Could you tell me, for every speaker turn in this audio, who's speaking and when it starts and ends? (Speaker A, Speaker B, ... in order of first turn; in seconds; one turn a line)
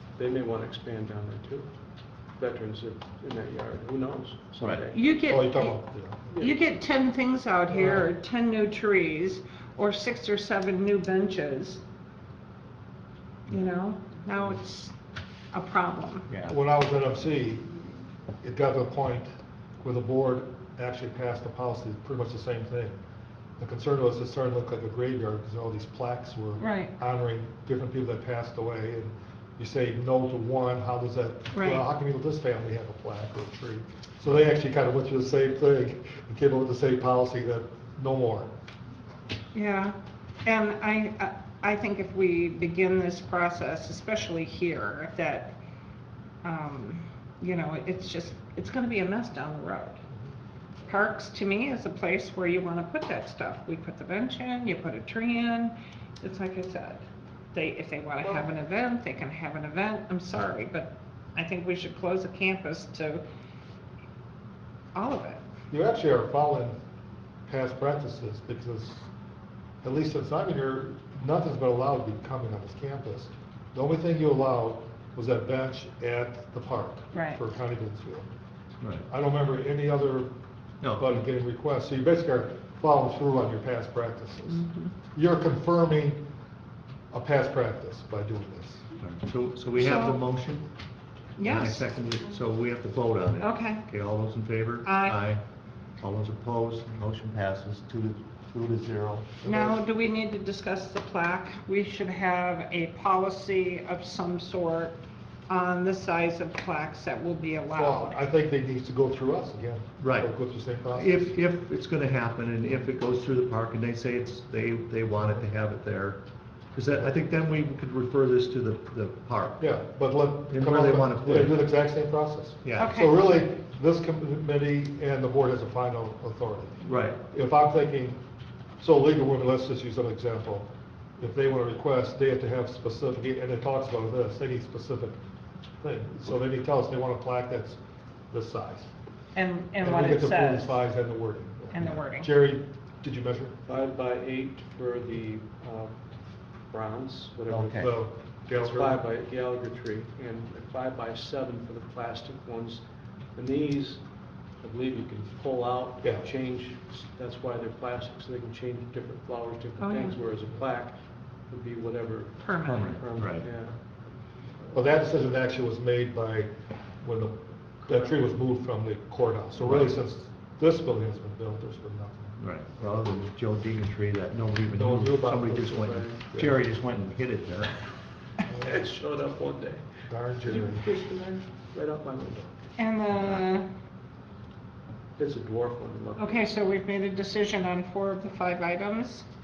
Speaker A: 0.2-1.7
Speaker A: 2.4-5.0
Speaker B: 4.6-4.8
Speaker C: 4.9-5.8
Speaker D: 5.3-6.3
Speaker A: 6.3-6.6
Speaker C: 6.4-11.8
Speaker D: 7.7-8.0
Speaker C: 13.5-14.9
Speaker C: 15.5-16.3
Speaker B: 16.3-16.5
Speaker D: 16.5-19.3
Speaker D: 19.8-23.0
Speaker D: 23.6-38.5
Speaker C: 26.6-26.9
Speaker C: 31.5-31.8
Speaker C: 39.5-45.5
Speaker C: 46.4-50.0
Speaker C: 50.9-63.2
Speaker C: 64.9-65.4
Speaker D: 65.7-66.8
Speaker D: 67.5-69.1
Speaker D: 69.8-78.3
Speaker C: 77.1-77.4
Speaker D: 79.1-80.3
Speaker B: 80.8-81.2
Speaker D: 80.9-86.2
Speaker C: 84.5-84.9
Speaker D: 87.1-88.8
Speaker B: 89.0-90.7
Speaker C: 89.7-90.2
Speaker C: 91.4-91.9
Speaker B: 91.4-95.4
Speaker C: 93.3-93.8
Speaker C: 94.8-95.2
Speaker B: 96.0-99.5
Speaker C: 99.4-108.2
Speaker D: 99.4-99.8
Speaker D: 107.7-111.3
Speaker B: 110.0-110.3
Speaker B: 110.9-116.2
Speaker B: 116.7-119.7
Speaker D: 119.6-128.2
Speaker B: 120.5-121.7
Speaker B: 122.6-122.9
Speaker C: 122.8-123.2
Speaker B: 126.8-127.2
Speaker D: 128.8-135.2
Speaker D: 135.8-137.8
Speaker D: 138.3-138.9
Speaker C: 139.3-140.8
Speaker D: 139.8-143.6
Speaker C: 141.7-142.3
Speaker A: 143.7-146.0
Speaker A: 146.7-147.9
Speaker B: 147.5-147.9
Speaker D: 147.7-149.0
Speaker A: 148.5-152.8
Speaker A: 153.3-154.0
Speaker A: 154.6-163.8
Speaker D: 156.0-156.3
Speaker C: 159.8-160.2
Speaker C: 162.4-162.9
Speaker B: 162.6-163.5
Speaker D: 164.7-172.4
Speaker B: 169.6-169.9
Speaker B: 172.4-177.9
Speaker D: 174.7-176.6
Speaker D: 178.4-178.9
Speaker A: 178.6-182.7
Speaker D: 180.1-180.9
Speaker C: 182.8-183.7
Speaker A: 185.2-186.5
Speaker C: 186.2-189.2